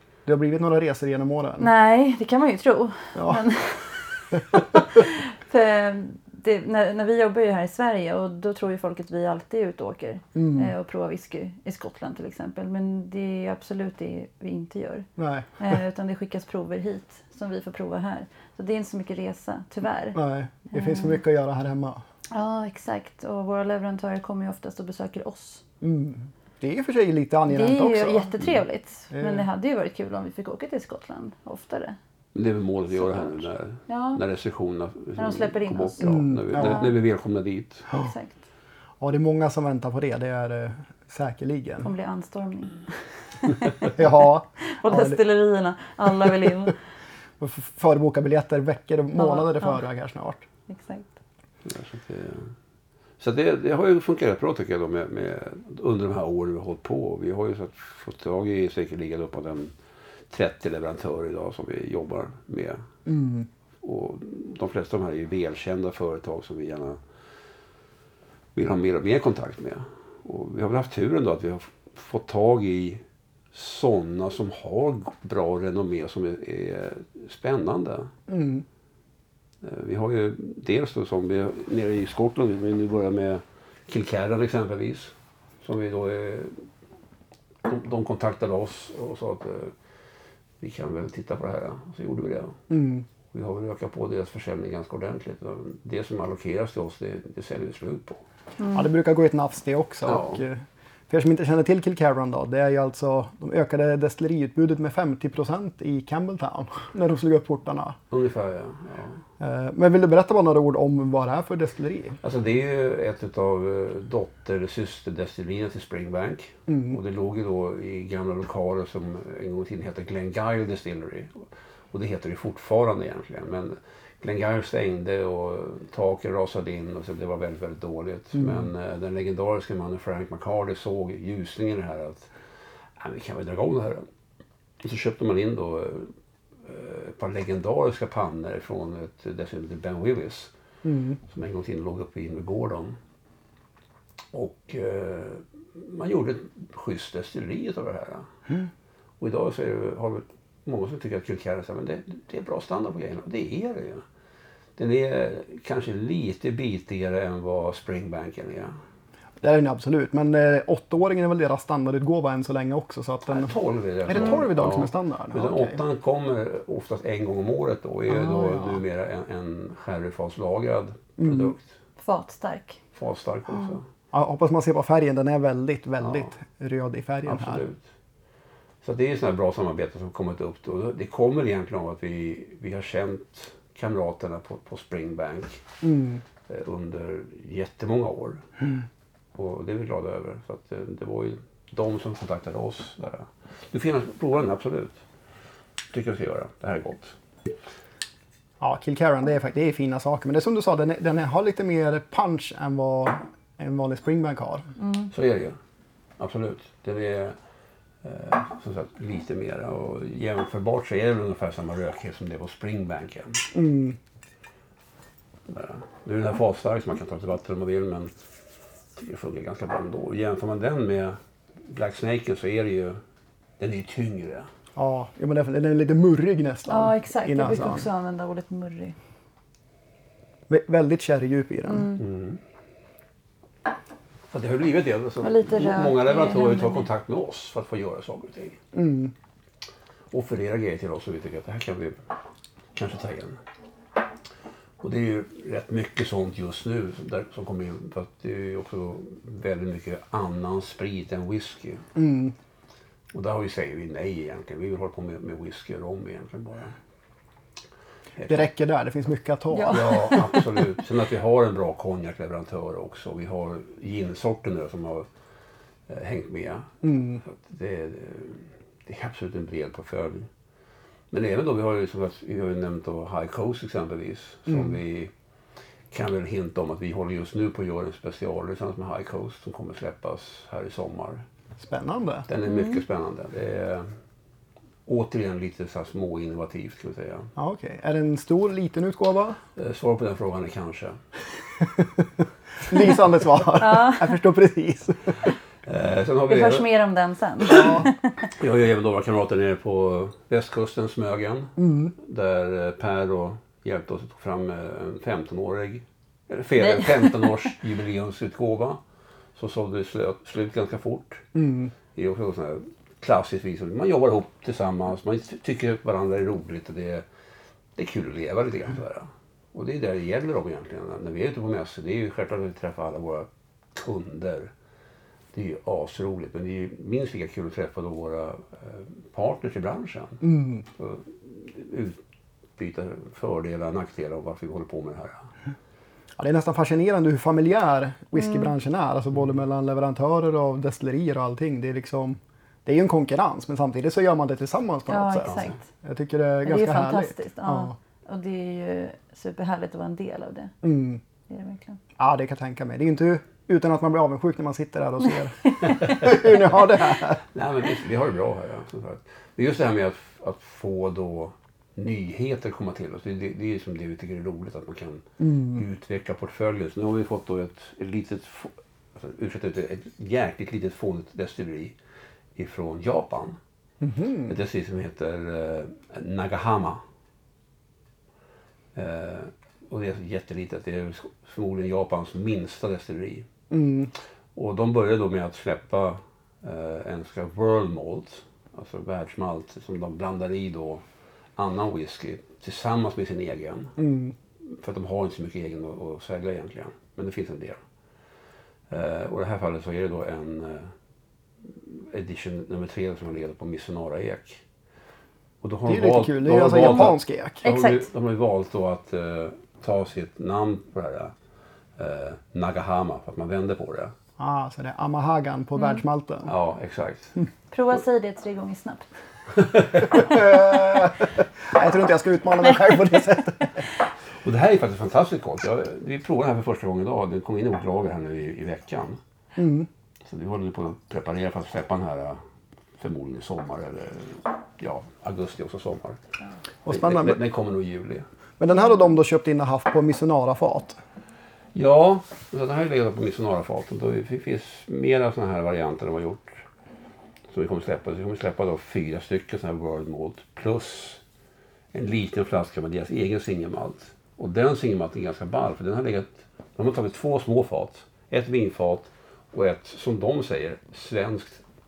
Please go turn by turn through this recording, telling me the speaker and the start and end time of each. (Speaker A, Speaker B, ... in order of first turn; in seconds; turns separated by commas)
Speaker A: 0.2-1.7, Speaker B: 1.6-15.1, Speaker A: 3.1-3.4, Speaker A: 4.3-4.6, Speaker A: 10.3-10.7, Speaker A: 15.2-15.8, Speaker B: 15.6-20.2, Speaker A: 20.1-22.0, Speaker B: 20.7-21.2, Speaker B: 22.3-25.6, Speaker A: 25.8-28.3, Speaker B: 27.5-32.0, Speaker A: 29.1-29.4, Speaker C: 32.3-37.9, Speaker B: 32.9-34.2, Speaker B: 35.2-36.1, Speaker A: 36.0-36.9, Speaker B: 38.0-38.4, Speaker A: 39.0-41.9, Speaker B: 41.8-46.8, Speaker A: 43.9-45.2, Speaker A: 46.1-46.5, Speaker A: 47.4-50.5, Speaker B: 49.1-49.8, Speaker B: 50.7-51.1, Speaker C: 51.6-52.5, Speaker C: 53.2-59.7, Speaker C: 60.3-62.9, Speaker A: 63.0-63.5, Speaker C: 63.8-67.0, Speaker C: 68.5-78.1, Speaker A: 78.3-78.6, Speaker C: 79.6-86.7, Speaker C: 87.6-89.7, Speaker C: 90.6-92.6, Speaker A: 92.7-93.0, Speaker C: 93.3-98.2, Speaker B: 98.6-98.9, Speaker A: 98.7-108.0, Speaker C: 100.0-100.4, Speaker C: 108.1-109.2, Speaker A: 109.4-112.2, Speaker C: 112.2-132.3, Speaker A: 116.7-117.0, Speaker A: 128.4-128.7, Speaker C: 133.0-134.1, Speaker C: 134.8-136.1, Speaker C: 136.6-140.5, Speaker A: 140.8-141.2, Speaker C: 141.3-143.0, Speaker C: 144.3-148.3, Speaker C: 149.2-154.0, Speaker C: 154.8-158.7, Speaker A: 159.4-163.5, Speaker C: 163.3-171.7, Speaker A: 164.1-165.8, Speaker A: 168.1-168.8, Speaker A: 171.2-171.5, Speaker B: 172.0-172.8, Speaker C: 172.9-173.8, Speaker A: 174.1-177.6, Speaker C: 176.0-176.3, Speaker C: 177.2-177.9, Speaker C: 178.8-185.6, Speaker A: 185.8-186.2, Speaker C: 186.4-188.5, Speaker C: 189.3-195.0, Speaker C: 195.9-197.2, Speaker A: 198.6-204.7, Speaker B: 204.8-205.1, Speaker C: 205.1-205.6, Speaker C: 206.2-207.3, Speaker C: 208.0-213.5, Speaker A: 213.5-214.0, Speaker C: 215.5-218.1, Speaker C: 218.9-223.0, Speaker C: 223.6-224.5, Speaker A: 224.7-227.9, Speaker B: 226.7-228.9, Speaker A: 230.5-231.9, Speaker B: 231.7-232.0, Speaker C: 232.0-232.4, Speaker C: 234.3-238.6, Speaker B: 235.2-236.9, Speaker A: 238.7-239.1, Speaker C: 240.1-242.0, Speaker C: 242.7-243.4, Speaker C: 244.8-251.9, Speaker A: 251.9-252.3, Speaker C: 253.1-256.8, Speaker C: 258.2-258.5, Speaker A: 258.3-260.4, Speaker B: 259.5-260.4, Speaker C: 259.6-265.1, Speaker C: 265.9-270.3, Speaker A: 266.8-267.2, Speaker C: 271.1-275.1, Speaker A: 274.5-274.7, Speaker C: 275.9-281.2, Speaker A: 281.6-282.3, Speaker C: 282.3-283.9, Speaker B: 282.4-282.8, Speaker C: 284.9-287.3, Speaker A: 287.4-289.4, Speaker C: 289.6-291.0, Speaker A: 291.6-295.2, Speaker B: 293.6-294.2, Speaker C: 295.6-296.6, Speaker B: 296.3-298.3, Speaker A: 297.4-297.9, Speaker C: 298.3-308.8, Speaker A: 301.6-301.9, Speaker B: 306.6-307.6, Speaker C: 309.4-311.2, Speaker A: 311.3-311.7, Speaker C: 311.9-317.0, Speaker C: 317.8-324.5, Speaker C: 325.3-332.0, Speaker A: 330.2-330.6, Speaker C: 332.6-335.3, Speaker A: 336.2-347.7, Speaker B: 338.1-338.5, Speaker B: 344.9-345.6, Speaker C: 345.2-345.6, Speaker B: 346.4-350.5, Speaker A: 350.6-351.0, Speaker B: 351.3-351.8, Speaker A: 352.0-357.2, Speaker C: 355.6-371.8, Speaker B: 355.6-356.0, Speaker A: 365.2-365.6, Speaker C: 372.4-373.4, Speaker A: 373.8-374.3, Speaker C: 374.3-376.8, Speaker C: 378.7-383.3, Speaker A: 383.5-383.9, Speaker C: 384.3-390.8, Speaker C: 391.4-393.7, Speaker A: 393.8-394.1, Speaker C: 394.4-397.6, Speaker C: 398.7-400.7, Speaker C: 401.4-404.4, Speaker C: 405.4-411.1, Speaker A: 405.7-407.4, Speaker B: 407.4-407.9, Speaker C: 411.8-413.9, Speaker A: 414.2-416.3, Speaker C: 416.2-417.1, Speaker B: 417.5-418.9, Speaker C: 419.3-420.1, Speaker A: 419.9-423.6, Speaker C: 424.2-429.0, Speaker A: 429.4-429.7, Speaker C: 430.1-432.2, Speaker C: 432.8-436.0, Speaker A: 436.6-437.2, Speaker C: 436.7-438.1, Speaker A: 438.4-440.8, Speaker C: 441.5-446.4, Speaker C: 447.3-451.0, Speaker C: 451.7-461.4